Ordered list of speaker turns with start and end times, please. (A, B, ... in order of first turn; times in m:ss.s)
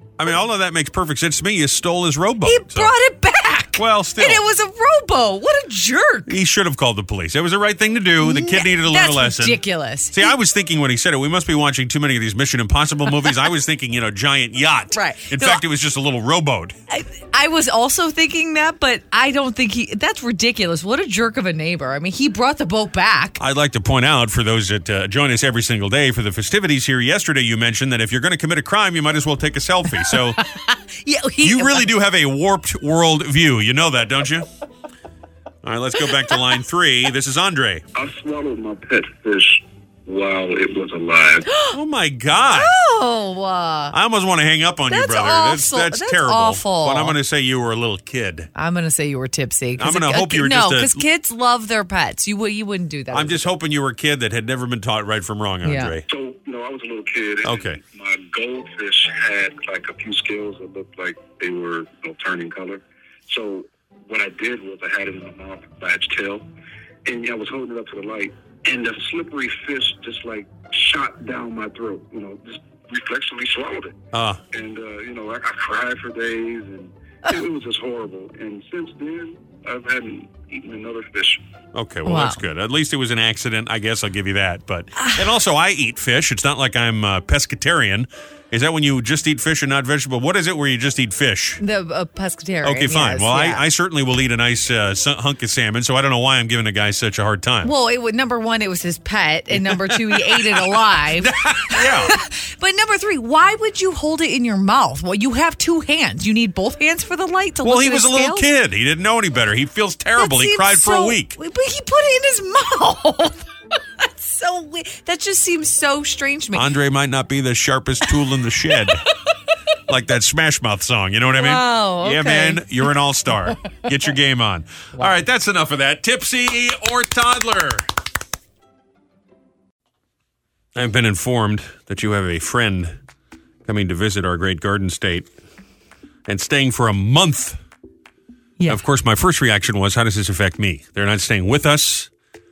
0:00.2-0:02.9 A
0:02.4-0:06.3 B
0:03.8-0:04.4 A
0:06.3-0:09.6 A
0:08.2-0:10.4 B
0:10.1-0:16.8 A
0:14.9-0:15.6 B
0:16.9-0:23.4 B
0:23.4-0:30.4 A
0:30.1-0:31.9 B
0:31.4-0:34.5 A
0:35.6-0:37.8 A
0:38.0-0:41.5 C
0:41.5-0:41.8 B
0:41.7-0:42.7 A
0:42.5-0:44.0 B
0:43.9-0:48.5 A
0:44.9-0:47.2 B
0:48.6-0:53.5 B
0:49.8-0:51.0 A
0:53.1-0:56.0 A
0:55.6-0:56.0 B
0:56.1-1:06.5 C
0:57.4-0:57.8 A
1:07.1-1:14.0 C
1:14.1-1:14.4 A
1:14.5-1:21.4 C
1:21.7-1:31.6 A
1:22.1-1:22.4 B
1:31.6-1:33.6 B
1:32.6-1:37.7 A
1:37.6-1:48.5 B
1:39.5-1:42.1 A
1:47.6-1:51.4 A
1:50.2-1:53.5 B
1:54.0-1:56.7 B
1:56.6-1:59.0 A
1:59.9-2:07.8 A
2:01.3-2:02.9 B
2:10.8-2:13.0 A
2:13.7-2:15.3 A
2:16.3-2:17.6 A
2:18.7-2:22.1 A